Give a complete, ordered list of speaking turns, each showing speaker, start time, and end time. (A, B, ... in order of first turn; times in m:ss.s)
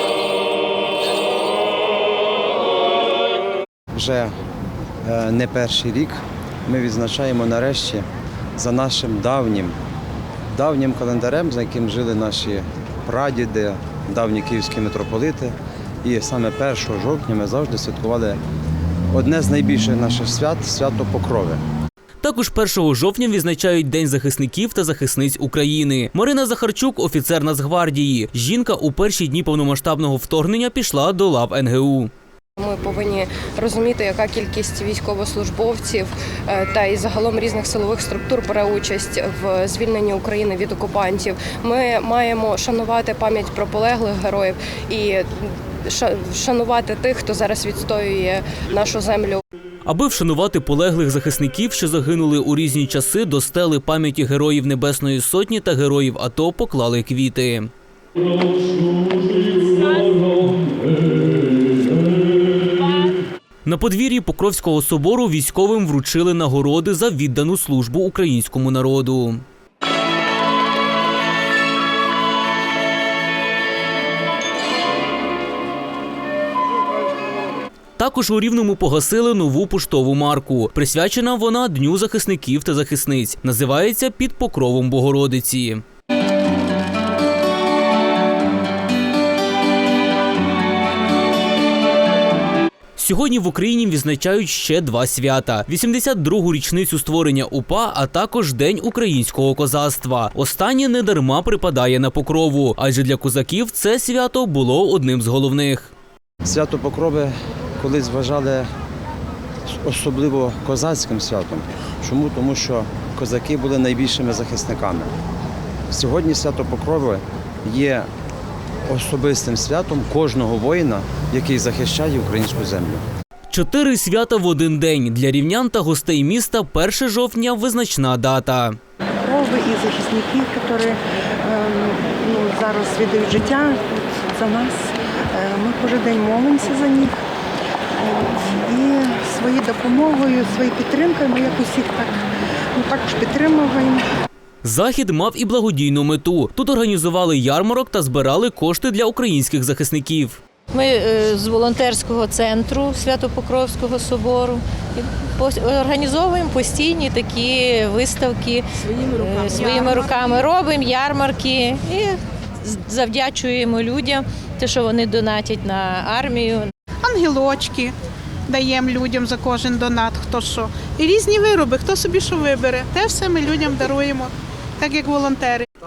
0:04.0-0:04.3 A
0:05.0-0:09.8 A
0:10.5-0:18.4 A
0:19.1-0:21.6 A
0:22.2-0:32.1 B
0:32.6-0:49.4 C
0:49.8-0:57.7 B
0:58.5-1:01.1 B
1:03.6-1:09.4 B
1:18.0-1:25.8 B
1:33.0-1:45.9 B
1:46.4-1:48.7 A
1:49.7-1:55.1 A
1:55.9-1:58.1 A
1:58.9-2:03.0 A
2:03.5-2:08.8 B
2:09.2-2:17.1 D
2:18.0-2:22.2 D
2:22.8-2:24.0 D
2:24.6-2:30.4 B
2:30.7-2:46.7 E
2:39.0-2:40.5 F
2:47.0-2:47.9 F
2:48.5-2:55.7 F